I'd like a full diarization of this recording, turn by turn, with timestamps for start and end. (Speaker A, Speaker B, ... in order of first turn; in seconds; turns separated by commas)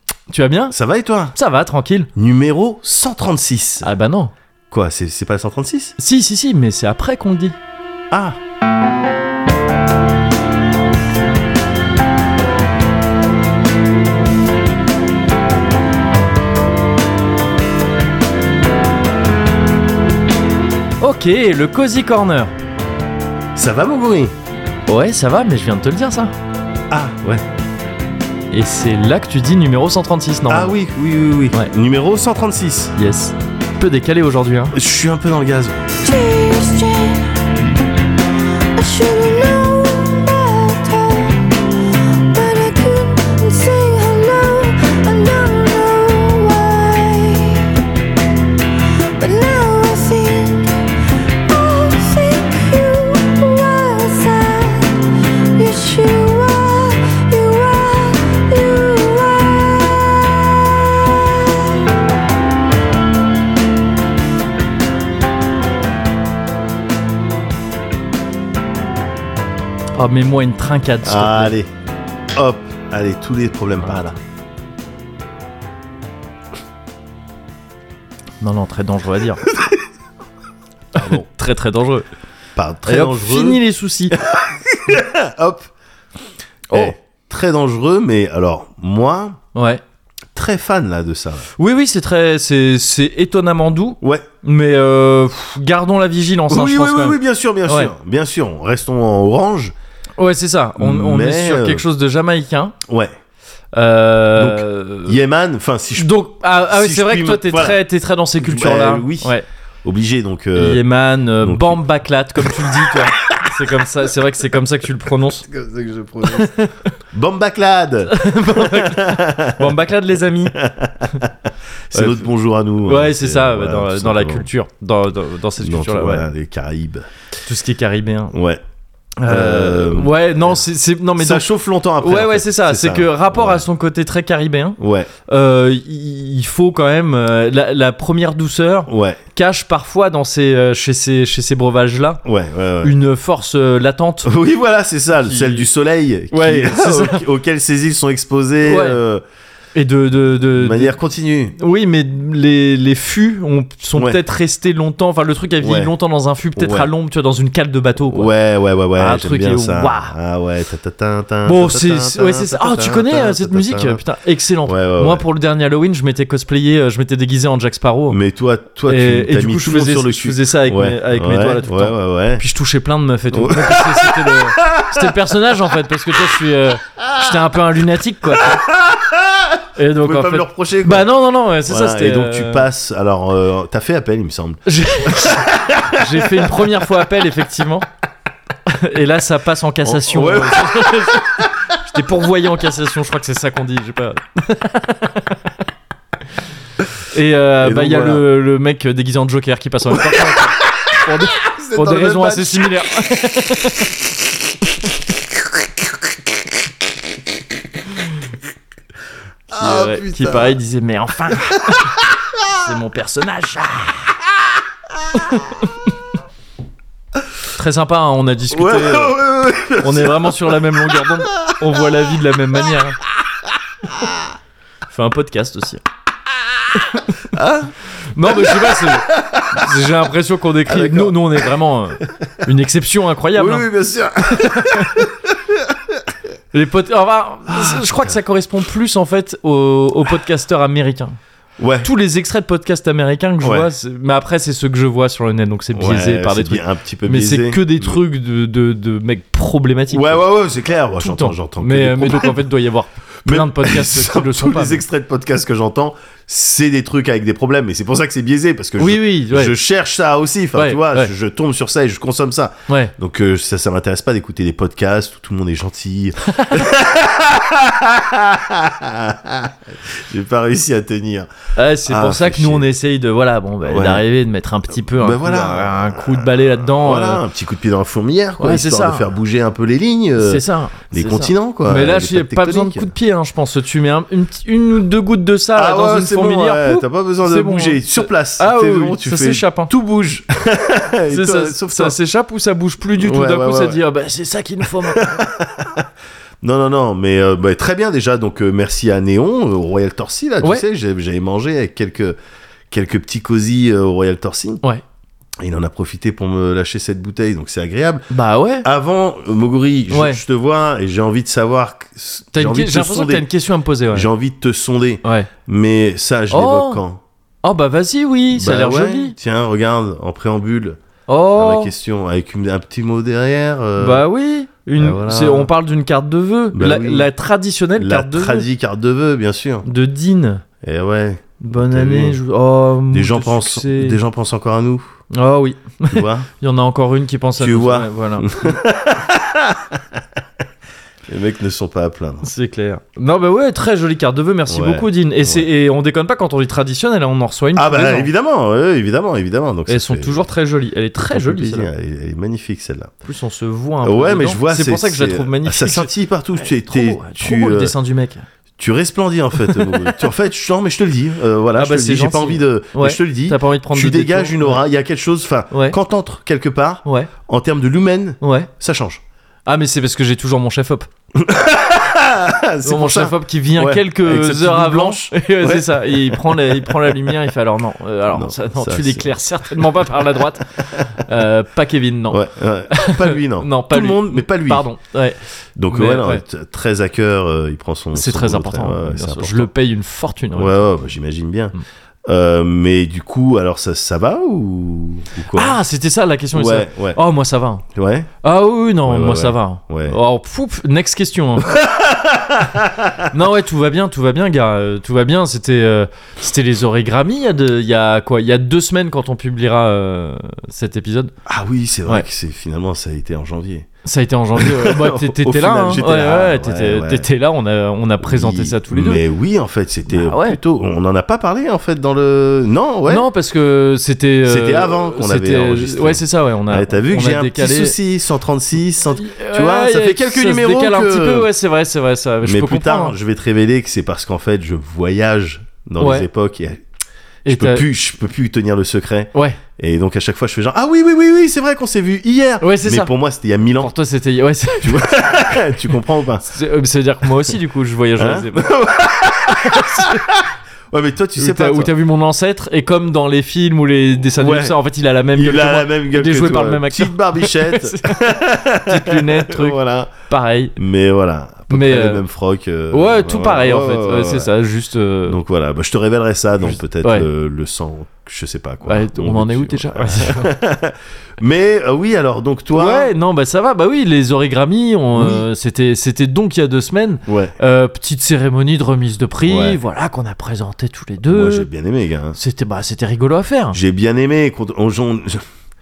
Speaker A: 0.3-0.8, Speaker B: 0.7-1.3, Speaker A: 1.4-2.1, Speaker B: 2.1-3.9, Speaker A: 3.8-4.3, Speaker B: 4.7-6.0, Speaker A: 6.0-7.5, Speaker B: 8.1-8.4, Speaker A: 21.0-22.5, Speaker B: 23.6-24.3, Speaker A: 24.9-26.3, Speaker B: 26.9-27.4, Speaker A: 28.5-30.8, Speaker B: 30.5-33.0, Speaker A: 33.0-34.8, Speaker B: 34.7-35.8, Speaker C: 36.0-37.4, Speaker C: 38.8-41.5, Speaker C: 42.1-47.8, Speaker C: 49.2-50.9, Speaker C: 51.5-60.5, Speaker A: 70.0-71.5, Speaker B: 71.0-71.7, Speaker B: 72.3-74.2, Speaker A: 78.4-79.4, Speaker B: 81.0-81.2, Speaker A: 81.0-82.1, Speaker B: 82.6-83.6, Speaker A: 82.9-84.2, Speaker B: 84.2-85.7, Speaker A: 86.7-87.0, Speaker B: 86.7-89.4, Speaker A: 89.5-89.8, Speaker B: 90.3-91.5, Speaker A: 91.6-97.9, Speaker B: 96.5-99.7, Speaker A: 100.2-102.8, Speaker B: 100.8-101.8, Speaker B: 102.9-103.1, Speaker A: 103.7-105.2, Speaker B: 104.4-107.8, Speaker A: 106.0-109.5, Speaker B: 108.4-110.8, Speaker A: 110.5-115.5, Speaker B: 111.4-111.8, Speaker B: 115.5-116.5, Speaker A: 116.2-116.9, Speaker B: 117.1-119.7, Speaker A: 118.1-120.6, Speaker B: 120.5-124.5, Speaker A: 121.9-122.3, Speaker A: 122.8-126.3, Speaker B: 125.6-127.1, Speaker A: 127.5-128.3, Speaker B: 128.3-128.6, Speaker A: 129.2-131.5, Speaker B: 129.3-130.5, Speaker B: 131.2-133.6, Speaker A: 132.0-142.2, Speaker B: 134.8-135.1, Speaker B: 138.9-139.2, Speaker B: 142.2-142.9, Speaker A: 142.8-144.3, Speaker B: 144.2-149.2, Speaker A: 145.2-145.7, Speaker A: 146.3-147.2, Speaker A: 148.7-149.0, Speaker A: 149.8-151.0, Speaker B: 150.6-151.6, Speaker A: 151.6-158.3, Speaker B: 155.6-155.9, Speaker B: 156.6-156.9, Speaker B: 158.1-164.0, Speaker A: 159.0-160.2, Speaker A: 161.4-168.2, Speaker B: 164.7-165.2, Speaker B: 168.1-172.4, Speaker A: 168.9-178.7, Speaker B: 173.3-175.2, Speaker B: 178.4-181.1, Speaker A: 179.8-182.7, Speaker B: 181.7-186.5, Speaker A: 184.7-187.9, Speaker A: 188.7-195.3, Speaker B: 189.8-191.5, Speaker A: 197.1-203.9, Speaker B: 197.6-198.2, Speaker B: 200.0-200.3, Speaker B: 201.4-202.7, Speaker B: 209.5-210.6, Speaker A: 209.5-211.9, Speaker A: 212.5-214.1, Speaker A: 215.1-215.7, Speaker A: 217.6-219.2, Speaker B: 218.5-221.5, Speaker A: 219.8-223.0, Speaker B: 223.9-224.2, Speaker A: 224.9-225.8, Speaker A: 226.8-227.2, Speaker B: 227.3-227.7, Speaker A: 228.1-233.7, Speaker B: 228.3-229.6, Speaker B: 230.7-231.4, Speaker B: 233.3-235.8, Speaker A: 234.4-235.0, Speaker A: 236.5-241.2, Speaker B: 237.5-238.1, Speaker B: 241.6-241.9, Speaker A: 241.8-250.2, Speaker B: 243.4-243.7, Speaker B: 245.7-248.0, Speaker B: 249.9-252.5, Speaker A: 251.0-254.8, Speaker B: 253.3-271.3, Speaker A: 258.8-259.5, Speaker A: 260.6-261.1, Speaker A: 271.6-277.2, Speaker B: 271.9-272.7, Speaker B: 273.7-274.1, Speaker B: 274.7-282.9, Speaker A: 278.4-279.1, Speaker A: 280.2-289.7, Speaker B: 285.6-291.9, Speaker A: 291.1-295.2, Speaker B: 293.0-293.8, Speaker B: 294.9-295.9, Speaker B: 296.4-302.2, Speaker B: 302.7-304.6, Speaker B: 305.4-308.1, Speaker A: 308.1-308.7, Speaker B: 308.6-313.3, Speaker A: 309.9-310.2, Speaker A: 312.3-314.1, Speaker B: 313.9-317.0, Speaker A: 315.0-315.3, Speaker A: 316.3-316.8, Speaker A: 317.4-319.1, Speaker B: 318.3-320.8, Speaker A: 321.1-321.7, Speaker B: 321.4-324.0, Speaker A: 323.8-328.5, Speaker B: 324.8-325.5, Speaker B: 326.5-327.1, Speaker B: 327.8-329.7, Speaker A: 329.6-330.4, Speaker B: 330.6-332.2, Speaker A: 331.4-334.0, Speaker B: 332.9-334.9, Speaker A: 335.1-338.3, Speaker B: 335.9-336.3, Speaker B: 337.4-339.8, Speaker B: 341.1-342.3, Speaker A: 342.2-348.1, Speaker B: 344.5-345.5, Speaker B: 347.6-350.2, Speaker A: 349.7-351.7, Speaker B: 351.1-352.9, Speaker A: 353.1-355.9, Speaker B: 353.8-357.7, Speaker A: 356.6-358.2, Speaker B: 358.6-369.0, Speaker A: 359.4-359.9, Speaker A: 361.6-364.6, Speaker A: 365.5-365.8, Speaker A: 366.9-367.1, Speaker A: 368.2-368.5, Speaker A: 369.5-370.9, Speaker B: 371.1-377.1, Speaker A: 372.6-385.2, Speaker B: 378.1-379.1, Speaker B: 382.1-384.7, Speaker B: 385.6-389.5, Speaker A: 385.7-386.2, Speaker A: 387.9-390.6, Speaker B: 390.3-391.6, Speaker B: 392.1-395.6, Speaker A: 395.3-397.6, Speaker B: 396.3-397.0, Speaker B: 397.7-398.1, Speaker A: 398.2-401.6, Speaker B: 398.8-400.0, Speaker B: 401.5-403.1, Speaker A: 403.1-411.1, Speaker B: 411.3-413.7, Speaker A: 413.9-419.0, Speaker B: 414.4-417.1, Speaker B: 418.0-423.1, Speaker A: 419.9-420.4, Speaker A: 422.9-427.8, Speaker B: 424.2-431.3, Speaker A: 428.9-432.9, Speaker B: 432.2-436.6, Speaker A: 435.8-436.1, Speaker A: 437.3-437.7, Speaker B: 437.3-443.7, Speaker A: 439.1-439.4, Speaker A: 442.4-442.9, Speaker A: 443.6-444.9, Speaker B: 444.6-446.3, Speaker A: 446.3-448.5, Speaker B: 448.0-451.7, Speaker A: 449.4-450.0, Speaker A: 451.2-460.6, Speaker B: 454.1-454.6, Speaker B: 455.1-459.9, Speaker B: 460.6-464.3, Speaker A: 461.5-462.0, Speaker A: 462.7-465.2, Speaker B: 465.1-472.9, Speaker A: 466.5-467.1, Speaker A: 468.7-470.4, Speaker A: 472.5-481.5, Speaker B: 474.9-475.3, Speaker B: 477.1-477.4, Speaker B: 479.2-479.6, Speaker B: 481.1-482.2, Speaker A: 482.1-483.6, Speaker B: 483.5-485.2